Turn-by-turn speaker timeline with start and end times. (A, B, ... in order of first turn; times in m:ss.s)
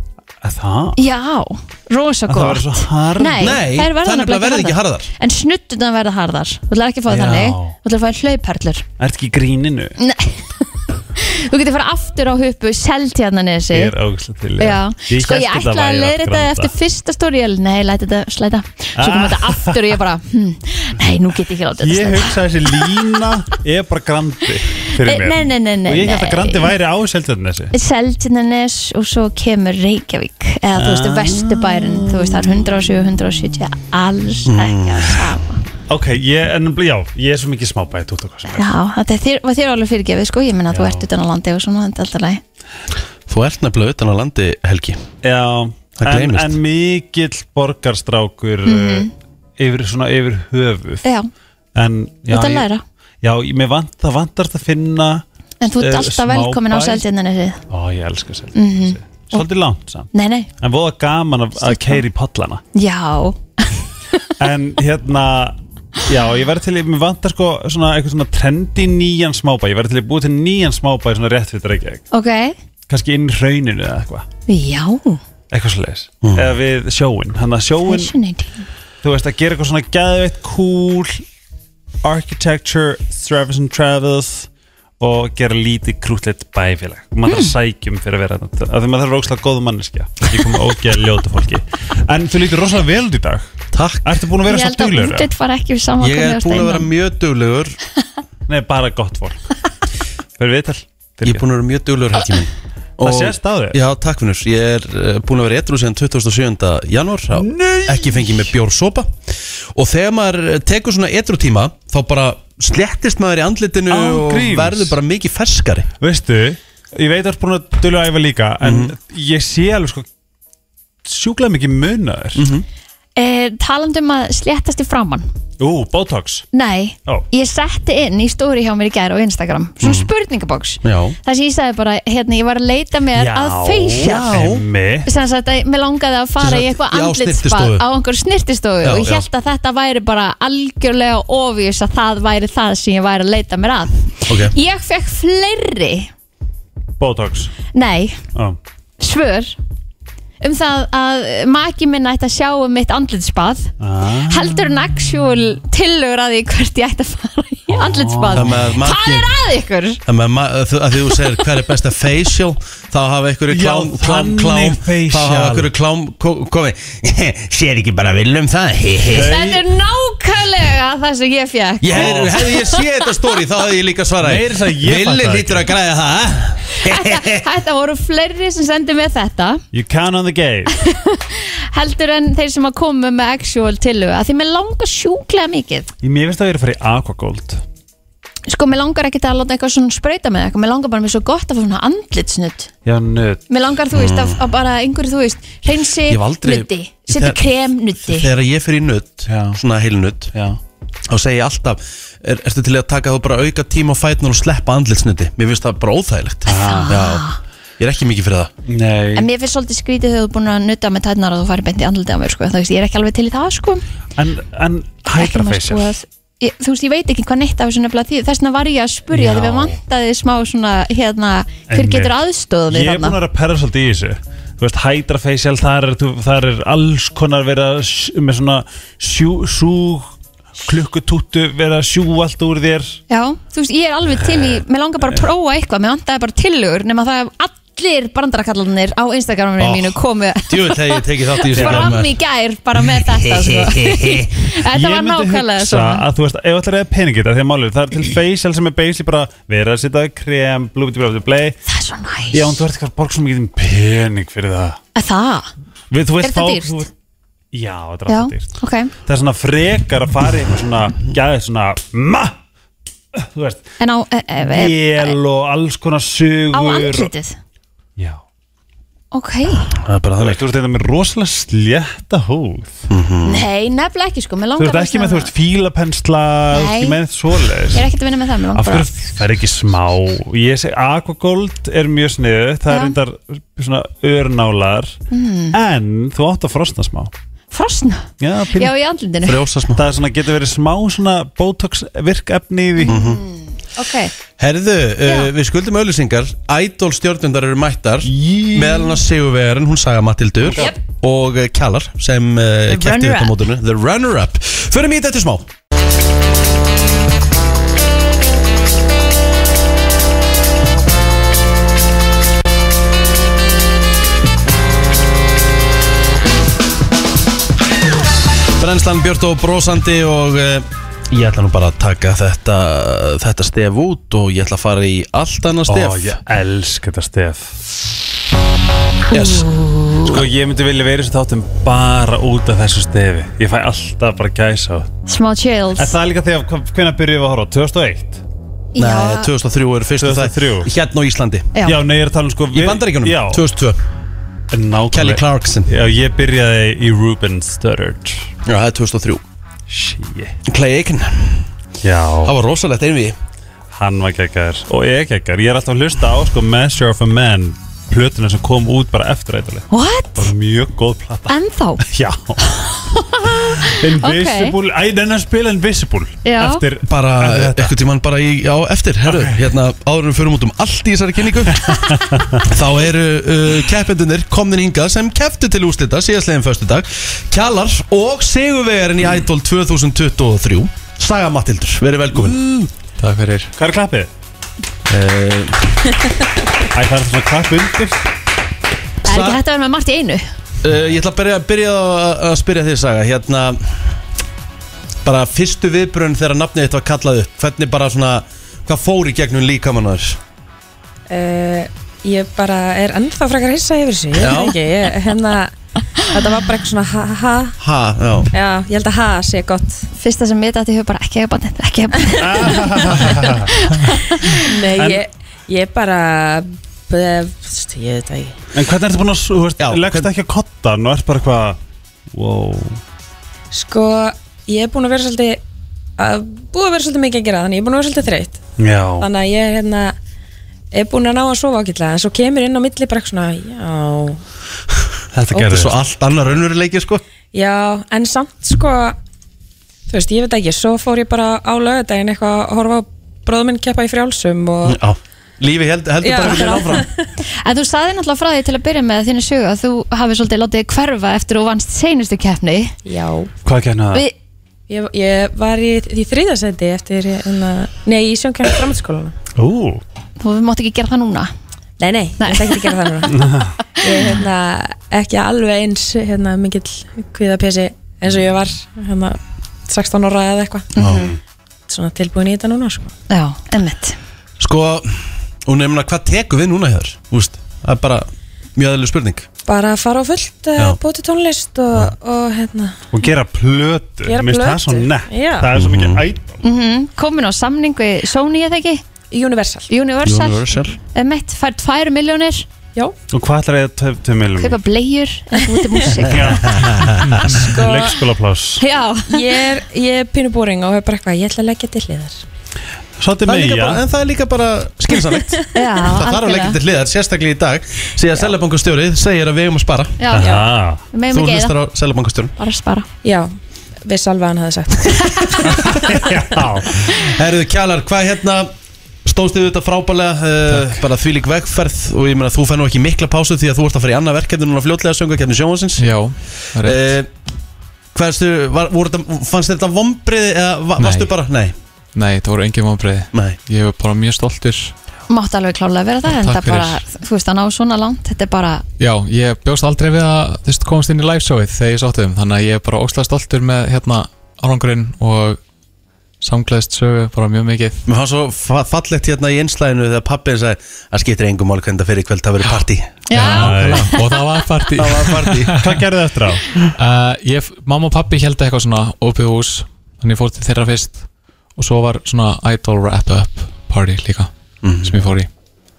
0:00.4-0:01.0 A
0:01.0-0:08.8 B
0:02.3-0:03.5 A
0:03.4-0:05.1 C
0:07.1-0:07.8 A
0:09.0-0:10.0 A
0:10.0-0:13.9 B
0:13.7-0:16.7 A
0:14.6-0:23.2 B
0:19.0-0:20.0 A
0:21.8-0:27.7 A
0:25.0-0:26.7 B
0:27.7-0:35.6 B
0:30.7-0:32.6 A
0:34.4-0:35.3 C
0:35.9-0:38.7 A
0:38.5-0:42.4 B
0:40.7-0:41.0 A
0:43.3-0:45.0 C
0:45.2-0:51.0 A
0:46.0-0:46.6 C
0:48.6-0:49.1 B
0:51.0-0:51.3 B
0:51.7-0:52.7 A
0:52.3-0:52.8 B
0:53.2-0:57.0 A
0:55.6-0:57.6 B
0:57.7-1:00.1 A
0:58.5-0:59.5 B
1:00.1-1:00.5 B
1:00.6-1:02.6 A
1:01.6-1:02.0 B
1:02.7-1:04.3 B
1:04.4-1:12.0 A
1:12.1-1:12.5 B
1:12.9-1:14.2 A
1:14.5-1:15.2 B
1:15.5-1:18.1 A
1:16.2-1:16.5 C
1:17.8-1:18.6 B
1:19.0-1:21.2 A
1:22.0-1:24.5 A
1:25.0-1:33.5 A
1:27.2-1:27.5 B
1:33.7-1:34.2 C
1:34.0-1:35.3 A
1:34.4-1:36.9 B
1:36.0-1:37.8 C
1:38.5-1:39.4 A
1:40.4-1:41.4 A
1:41.2-1:49.2 C
1:43.0-1:43.8 A
1:47.3-1:48.5 A
1:49.7-1:55.9 C
1:53.9-1:54.9 A
1:56.0-2:00.0 A
1:58.6-1:58.9 C
2:01.0-2:02.5 A
2:02.4-2:02.6 C
2:03.2-2:05.2 B
2:05.6-2:06.4 A
2:06.5-2:14.4 B
2:09.8-2:10.1 C
2:10.8-2:11.2 C
2:13.1-2:15.1 A
2:14.0-2:14.6 C
2:15.0-2:26.1 B
2:16.4-2:17.8 C
2:18.8-2:19.2 C
2:24.3-2:24.5 C
2:27.0-2:27.5 A
2:27.7-2:28.2 B
2:29.0-2:29.6 B
2:30.4-2:33.7 B
2:33.8-2:34.6 A
2:34.3-2:40.0 B
2:37.7-2:38.7 A
2:38.3-2:39.3 C
2:40.0-2:49.3 C
2:43.5-2:45.7 A
2:49.1-2:49.6 A
2:49.1-2:52.8 B
2:51.8-2:57.5 C
2:51.9-2:52.4 A
2:54.2-2:55.7 A
2:56.7-2:59.6 B
2:59.7-3:00.7 A
3:00.7-3:05.9 B
3:06.0-3:07.6 A
3:08.5-3:12.7 B
3:12.8-3:13.4 A
3:13.5-3:18.3 B
3:13.9-3:14.4 C
3:16.1-3:17.5 C
3:18.0-3:20.3 C
3:19.3-3:19.6 A
3:20.3-3:20.6 A
3:21.1-3:27.2 C
3:26.5-3:27.0 A
3:26.5-3:27.4 B
3:27.8-3:28.5 C
3:28.7-3:29.3 A
3:29.1-3:33.8 B
3:34.2-3:35.9 A
3:35.1-3:43.2 B
3:39.1-3:39.8 A
3:41.7-3:42.2 A
3:42.7-3:53.0 A
3:53.1-4:06.0 B
3:59.6-4:02.1 C
4:01.5-4:01.9 A
4:02.9-4:04.3 C
4:04.6-4:11.6 A
4:11.6-4:12.6 B
4:12.3-4:14.8 A
4:14.9-4:15.5 B
4:15.9-4:16.9 A
4:16.2-4:16.9 B
4:17.5-4:18.5 A
4:18.1-4:18.9 B
4:19.0-4:22.4 A
4:23.1-4:23.6 A
4:23.8-4:25.2 B
4:24.4-4:27.1 A
4:26.5-4:27.4 B
4:29.1-4:29.7 B
4:29.7-4:30.4 C
4:30.2-4:32.8 A
4:32.9-4:33.4 C
4:33.2-4:35.3 B
4:34.6-4:37.9 A
4:36.5-4:37.0 B
4:37.7-4:38.9 B
4:38.5-4:45.0 A
4:42.7-4:43.0 B
4:45.1-4:45.6 B
4:45.5-4:47.1 A
4:47.5-4:49.4 B
4:48.2-4:48.7 A
4:49.2-4:49.8 C
4:49.7-4:53.0 A
4:52.8-4:54.1 B
4:52.8-4:53.2 C
4:54.4-5:05.5 C
4:55.0-4:55.3 B
4:58.0-4:59.0 A
5:02.7-5:03.4 B
5:18.6-5:26.2 C
5:25.7-5:27.5 A
5:29.1-5:29.5 C
5:29.1-5:30.2 B
5:30.0-5:34.9 A
5:35.1-5:36.0 B
5:35.8-5:38.2 A
5:38.7-5:39.3 B
5:38.8-5:41.5 C
5:40.0-5:40.7 A
5:41.5-5:41.8 B
5:41.6-5:43.4 A
5:42.5-5:43.8 C
5:44.5-5:48.3 A
5:44.9-5:45.7 C
5:48.4-5:49.2 C
5:49.7-5:50.4 A
5:50.4-5:51.5 C
5:51.8-5:52.3 A
5:52.2-5:53.2 C
5:53.7-6:02.6 A
5:59.7-6:00.3 B
6:01.3-6:01.8 B
6:02.4-6:04.6 B
6:03.4-6:07.7 A
6:06.2-6:06.6 B
6:06.9-6:11.9 C
6:09.1-6:09.4 A
6:11.6-6:12.5 A
6:12.4-6:22.4 C
6:23.0-6:23.5 D
6:23.6-6:24.1 A
6:24.9-6:25.8 C
6:26.7-6:28.0 A
6:29.0-6:30.3 B
6:29.0-6:29.4 C
6:30.6-6:33.9 C
6:35.0-6:40.2 C
6:41.1-6:45.5 E
6:44.2-6:44.5 C
6:46.1-6:47.6 E
6:47.6-6:48.3 C
6:48.3-6:49.8 E
6:50.0-6:54.4 B
6:52.2-6:53.7 A
6:54.4-6:58.4 E
6:54.8-6:55.0 A
6:58.5-7:01.6 A
6:59.6-7:00.1 C
7:02.1-7:02.8 A
7:03.5-7:05.4 E
7:06.0-7:08.4 E
7:08.6-7:09.1 A
7:09.0-7:10.0 E
7:10.7-7:14.2 E
7:15.1-7:15.8 A
7:15.4-7:17.0 C
7:17.3-7:19.0 E
7:19.9-7:24.8 E
7:24.6-7:26.8 C
7:26.0-7:26.9 E
7:26.2-7:26.8 B
7:27.4-7:32.8 B
7:32.8-7:33.3 E
7:33.4-7:34.0 A
7:34.7-7:39.2 E
7:39.3-7:39.8 A
7:40.2-7:41.3 B
7:41.8-7:43.2 E
7:42.2-7:42.8 B
7:43.1-7:43.5 A
7:43.8-7:50.8 E
7:43.9-7:44.2 B
7:50.8-7:51.1 B
7:50.8-7:51.1 C
7:51.7-7:52.9 E
7:53.1-7:54.0 B
7:54.4-7:59.3 C
7:59.4-8:02.8 E
8:02.9-8:06.4 A
8:04.0-8:05.5 E
8:05.5-8:06.0 C
8:06.4-8:08.8 B
8:09.1-8:09.7 E
8:09.7-8:12.5 B
8:10.0-8:10.8 C
8:13.1-8:14.6 A
8:14.4-8:16.6 B
8:16.0-8:18.6 A
8:16.5-8:17.2 C
8:17.2-8:18.0 E
8:18.6-8:19.4 B
8:19.1-8:22.2 E
8:23.0-8:23.8 A
8:23.2-8:30.0 C
8:25.5-8:26.6 B
8:30.0-8:31.6 B
8:30.1-8:30.8 A
8:30.2-8:30.4 E
8:31.1-8:32.3 C
8:32.4-8:32.9 B
8:33.0-8:36.1 E
8:35.4-8:36.8 A
8:36.9-8:38.5 C
8:39.0-8:45.8 C
8:40.5-8:40.8 A
8:45.8-8:47.0 D
8:46.6-8:47.1 C
8:47.9-8:51.5 C
8:50.8-8:51.1 D
8:51.9-8:54.7 D
8:53.1-8:53.4 C
8:55.1-8:58.6 B
8:56.1-8:56.8 D
8:58.8-9:05.4 D
9:06.2-9:07.8 D
9:07.9-9:13.9 C
9:13.1-9:14.2 B
9:13.1-9:15.8 D
9:13.2-9:13.9 A
9:14.7-9:15.6 C
9:15.6-9:16.5 A
9:16.7-9:21.0 D
9:21.6-9:24.3 D
9:24.6-9:25.0 C
9:24.8-9:25.3 D